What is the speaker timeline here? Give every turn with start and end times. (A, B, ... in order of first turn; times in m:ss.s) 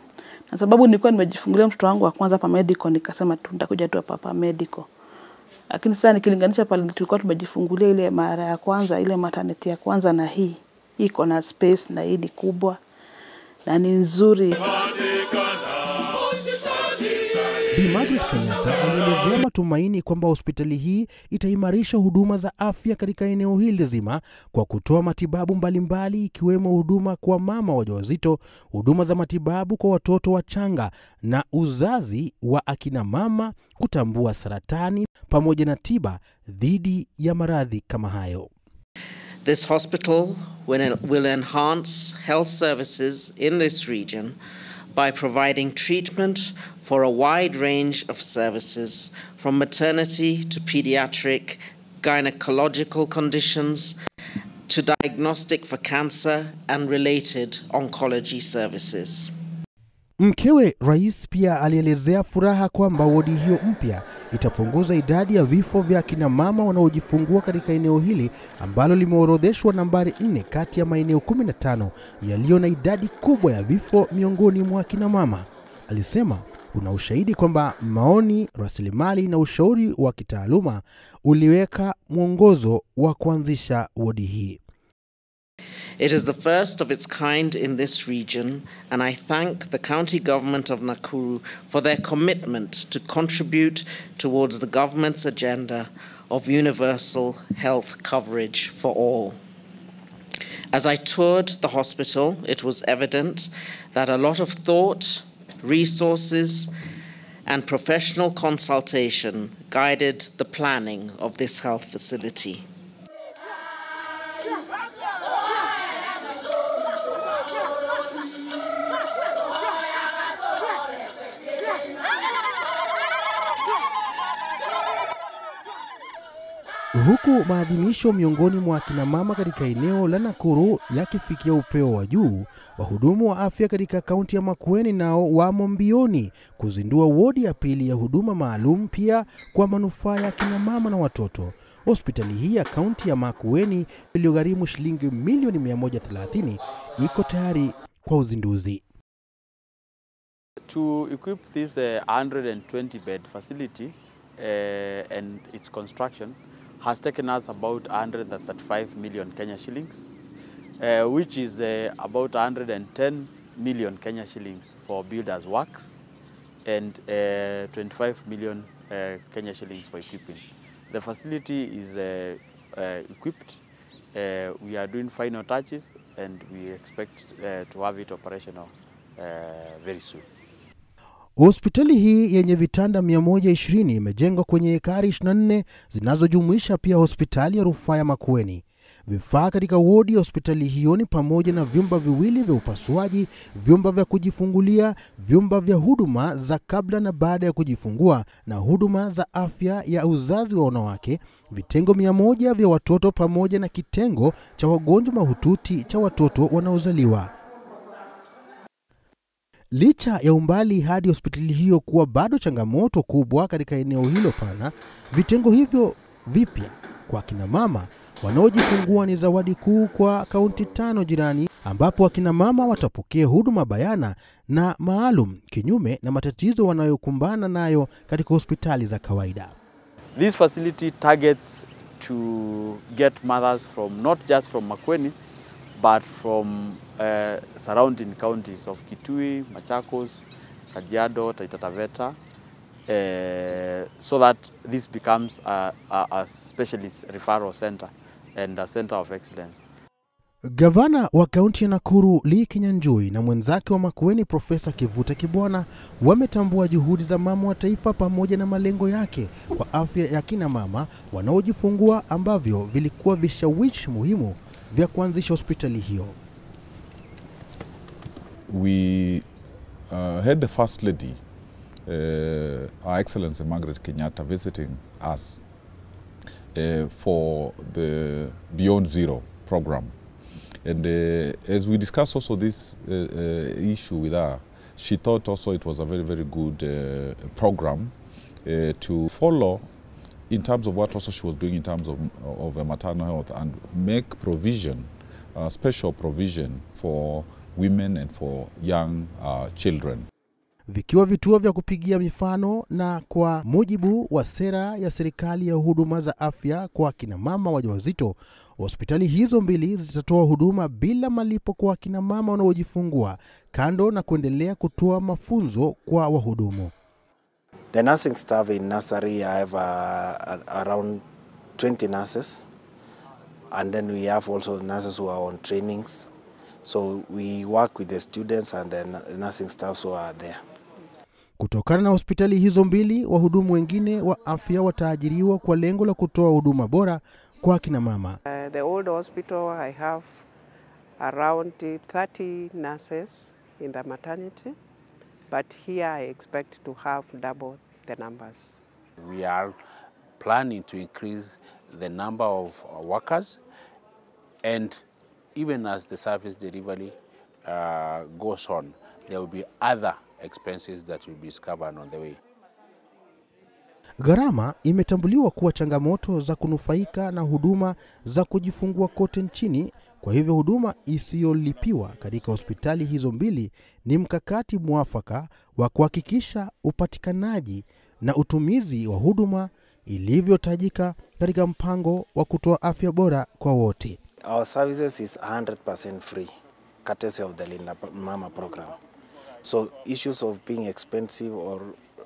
0:00.5-0:04.9 A
0:05.7-0:12.8 A
0:13.7-0:15.3 A
0:17.7-0:38.5 B
0:39.4-0:44.4 C
0:44.9-0:54.0 C
0:54.7-0:59.3 C
1:00.2-1:24.6 B
1:26.0-1:39.4 C
1:40.7-1:46.7 C
1:47.5-1:52.6 C
2:06.9-2:28.8 B
2:30.6-2:40.1 D
2:40.8-2:46.0 D
2:46.7-2:53.6 D
2:54.1-3:00.3 D
3:01.4-3:27.3 B
3:29.7-3:49.6 B
3:50.2-3:55.2 D
3:55.8-4:02.2 D
4:02.9-4:09.6 D
4:10.5-4:26.2 B
4:28.5-4:29.2 E
4:29.9-4:31.2 E
4:31.9-4:35.4 E
4:36.6-4:40.0 E
4:40.6-4:49.7 E
4:50.3-5:00.1 E
5:00.7-5:16.7 B
5:17.7-5:21.0 F
5:21.6-5:22.5 F
5:23.5-5:26.1 F
5:26.6-5:30.4 F
5:31.4-5:38.2 B
5:38.3-5:40.2 G
5:41.0-5:44.6 G
5:45.3-5:48.6 G
5:49.0-5:49.6 H
5:50.2-5:53.4 H
5:54.4-5:54.8 H
5:55.4-6:02.2 H
6:04.0-6:24.0 B
6:24.2-6:26.3 F
6:26.8-6:28.8 F
6:29.4-6:31.8 F